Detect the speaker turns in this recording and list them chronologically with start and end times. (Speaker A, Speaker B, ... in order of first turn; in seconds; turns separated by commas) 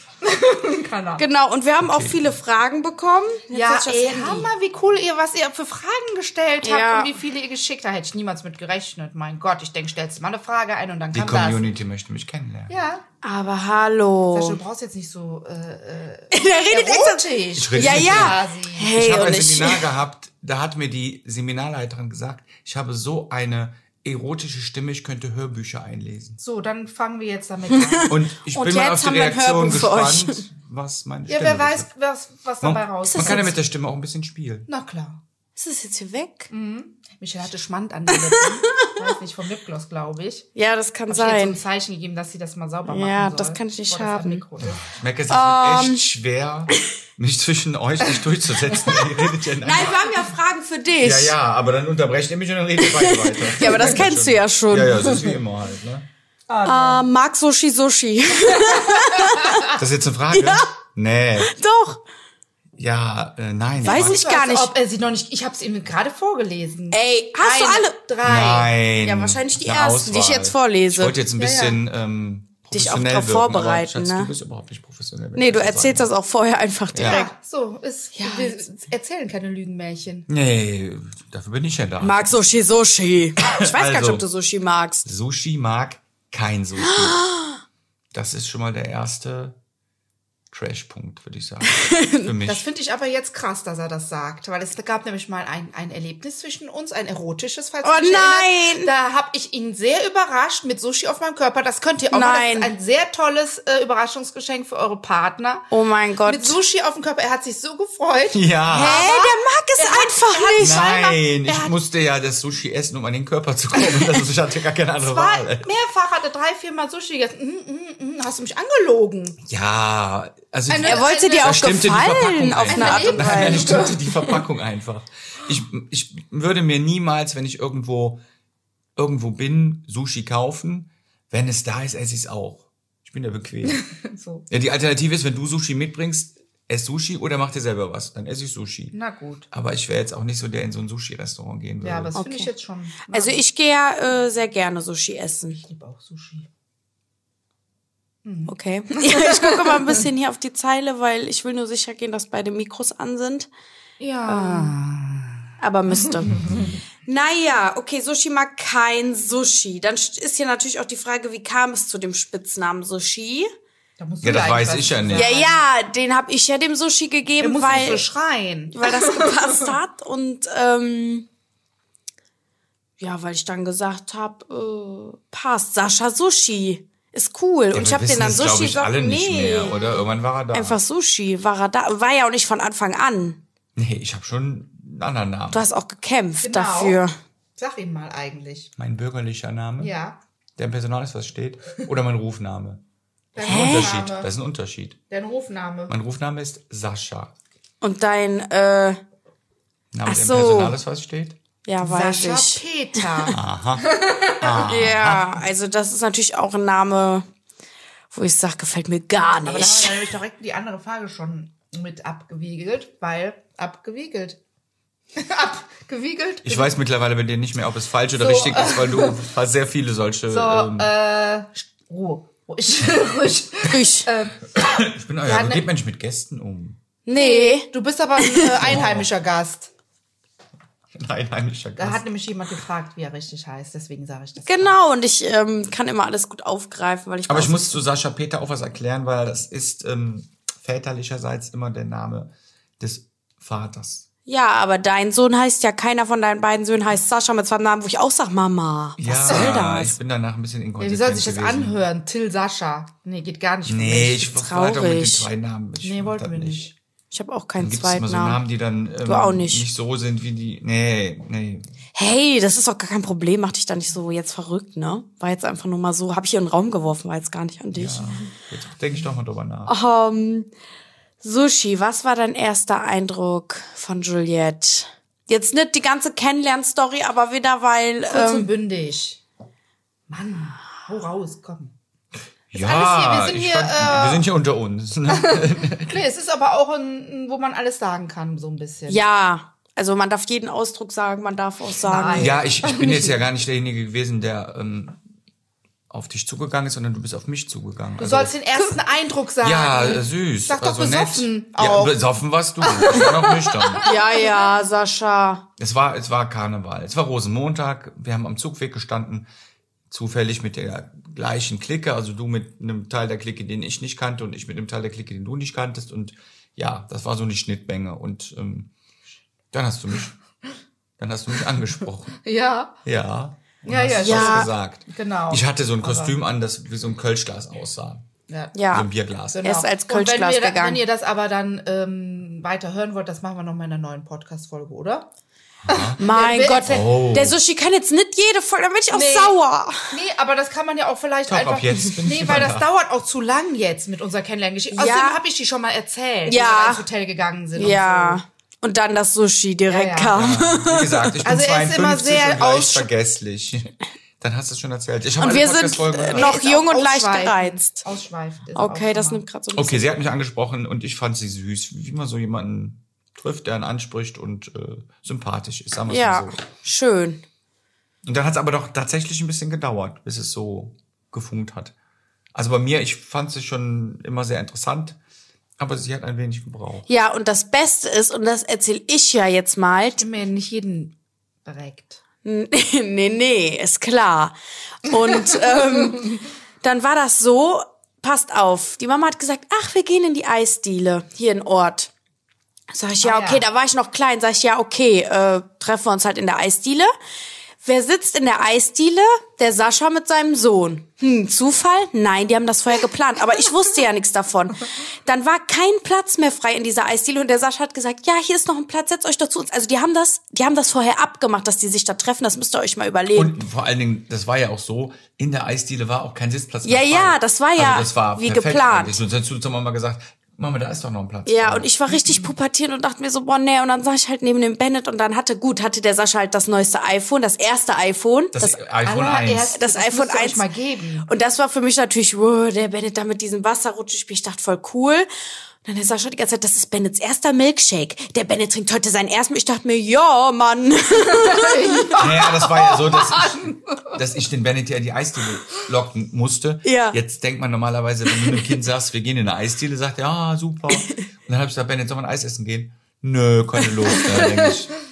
Speaker A: 0.2-1.2, Speaker B: 1.2-4.5, Speaker C: 1.8-2.3, Speaker A: 3.5-11.7, Speaker B: 6.6-7.1, Speaker C: 11.1-12.8, Speaker A: 12.7-13.0, Speaker B: 13.2-14.6, Speaker A: 14.3-18.9, Speaker B: 16.3-19.8, Speaker C: 17.5-18.4, Speaker C: 18.9-26.4, Speaker A: 26.4-28.1, Speaker B: 27.7-30.4, Speaker C: 28.1-31.9, Speaker A: 31.3-33.5, Speaker C: 32.6-34.7, Speaker B: 33.0-33.5, Speaker A: 34.7-35.2, Speaker B: 35.5-36.5, Speaker A: 36.5-40.5, Speaker B: 40.5-41.6, Speaker A: 41.1-44.9, Speaker B: 42.9-44.4, Speaker C: 44.9-50.0, Speaker B: 45.3-46.0, Speaker B: 49.6-51.4, Speaker A: 49.7-50.1, Speaker C: 51.0-56.0, Speaker B: 52.8-55.1, Speaker A: 56.5-57.0, Speaker B: 56.6-59.5, Speaker A: 58.5-59.4, Speaker C: 59.8-61.5, Speaker B: 60.3-60.7, Speaker B: 61.4-62.0, Speaker C: 62.8-64.2, Speaker B: 63.8-64.7, Speaker A: 63.8-68.7, Speaker B: 66.9-68.0, Speaker C: 68.2-76.1, Speaker B: 69.0-71.2, Speaker A: 71.4-71.8, Speaker B: 72.7-74.3, Speaker B: 75.3-77.3, Speaker C: 76.9-77.2, Speaker A: 77.0-80.3, Speaker B: 78.1-78.6, Speaker C: 80.3-82.6, Speaker B: 82.0-85.0, Speaker C: 83.4-84.2, Speaker C: 85.0-87.3, Speaker B: 86.8-87.6, Speaker C: 88.1-89.6, Speaker C: 90.5-92.6, Speaker B: 91.7-92.3, Speaker A: 92.4-105.7, Speaker B: 97.8-98.9, Speaker B: 102.1-102.7, Speaker B: 105.7-106.6, Speaker A: 106.2-111.7, Speaker C: 108.3-109.0, Speaker B: 108.7-110.8, Speaker C: 110.6-115.7, Speaker A: 115.0-119.4, Speaker C: 119.4-128.2, Speaker A: 120.7-121.8, Speaker B: 120.8-123.9, Speaker A: 122.5-124.2, Speaker C: 128.9-133.8, Speaker A: 133.7-134.4, Speaker C: 134.5-138.9, Speaker A: 138.9-139.5, Speaker C: 139.5-142.1, Speaker A: 141.8-143.4, Speaker B: 142.2-142.5, Speaker B: 143.1-145.6, Speaker A: 145.5-146.5, Speaker A: 148.2-149.8, Speaker B: 148.5-153.5, Speaker A: 154.0-155.3, Speaker B: 154.2-154.7, Speaker B: 155.6-156.4, Speaker A: 155.9-156.2, Speaker B: 157.1-163.5, Speaker A: 164.0-165.5, Speaker C: 164.2-165.3, Speaker B: 165.1-168.0, Speaker A: 167.4-169.7, Speaker B: 168.7-171.2, Speaker B: 173.0-179.8, Speaker C: 177.7-180.8, Speaker B: 180.5-183.4, Speaker C: 183.8-185.6, Speaker B: 185.5-187.1, Speaker A: 186.4-187.0, Speaker A: 187.6-188.7, Speaker C: 188.8-189.9, Speaker A: 189.8-190.2, Speaker C: 190.6-192.8, Speaker A: 193.3-194.3, Speaker B: 193.4-193.9, Speaker C: 193.4-195.0, Speaker A: 195.1-195.9, Speaker C: 195.9-197.3, Speaker B: 197.8-199.0, Speaker C: 199.9-201.4, Speaker B: 200.0-200.8, Speaker B: 201.6-203.3, Speaker A: 201.8-203.4, Speaker C: 203.3-205.3, Speaker A: 203.9-204.7, Speaker B: 204.6-207.2, Speaker B: 208.1-210.1, Speaker A: 209.4-214.4, Speaker A: 215.2-216.7, Speaker C: 216.4-220.9, Speaker A: 218.2-219.2, Speaker A: 220.3-225.6, Speaker B: 223.7-224.1, Speaker C: 224.6-226.8, Speaker B: 227.1-228.7, Speaker A: 227.2-229.7, Speaker C: 228.6-229.1, Speaker C: 230.9-232.0, Speaker A: 231.8-234.8, Speaker B: 234.4-237.8, Speaker C: 237.3-244.1, Speaker B: 244.3-249.9, Speaker C: 249.0-251.8, Speaker A: 249.2-249.6, Speaker A: 250.8-254.3, Speaker C: 253.7-256.7, Speaker B: 254.3-255.3, Speaker A: 255.8-256.7, Speaker B: 257.1-258.4, Speaker C: 257.6-261.7, Speaker B: 259.0-259.6, Speaker B: 261.9-268.3, Speaker C: 267.7-269.7, Speaker B: 269.7-270.5, Speaker B: 271.2-278.5, Speaker A: 278.1-279.2, Speaker A: 280.1-281.7, Speaker C: 282.5-286.0, Speaker A: 282.6-284.3, Speaker A: 285.1-289.0, Speaker B: 288.9-292.3, Speaker A: 291.8-293.1, Speaker C: 292.1-295.0, Speaker C: 295.9-298.3, Speaker A: 298.0-304.5, Speaker C: 299.4-303.9, Speaker B: 303.8-305.4, Speaker C: 305.6-309.3, Speaker C: 309.9-318.7, Speaker C: 319.5-320.1, Speaker C: 321.0-322.2, Speaker A: 322.2-322.8, Speaker C: 322.8-328.1, Speaker A: 323.6-326.1, Speaker B: 324.0-324.5, Speaker A: 328.3-328.6, Speaker B: 328.5-328.9, Speaker C: 328.7-329.5, Speaker A: 329.3-335.1, Speaker B: 329.4-330.8, Speaker C: 335.6-336.0, Speaker A: 335.7-337.0, Speaker B: 336.0-339.8, Speaker C: 336.6-337.4, Speaker A: 338.9-339.4, Speaker A: 339.9-348.2, Speaker C: 341.3-342.6, Speaker B: 344.7-345.2, Speaker B: 346.2-346.8, Speaker B: 347.5-351.2, Speaker A: 349.7-350.4, Speaker C: 350.1-356.4, Speaker A: 351.2-352.9, Speaker B: 355.2-357.8, Speaker A: 356.1-359.2, Speaker B: 358.5-359.9, Speaker C: 359.5-366.4, Speaker B: 365.9-367.2, Speaker C: 368.0-371.7, Speaker C: 372.3-375.0, Speaker C: 375.6-376.9, Speaker B: 376.9-380.0, Speaker A: 380.0-382.0, Speaker B: 382.2-391.9, Speaker B: 392.7-396.9, Speaker A: 393.0-393.4, Speaker B: 397.6-413.4, Speaker C: 413.1-421.7, Speaker B: 416.6-419.0, Speaker B: 421.2-428.6, Speaker A: 421.9-422.3, Speaker C: 428.3-429.5, Speaker A: 428.8-431.1, Speaker B: 429.5-430.4, Speaker B: 431.1-435.1, Speaker B: 435.6-441.9, Speaker A: 441.1-443.8, Speaker C: 441.9-454.7, Speaker B: 446.6-447.0, Speaker B: 450.7-451.0, Speaker A: 454.1-454.5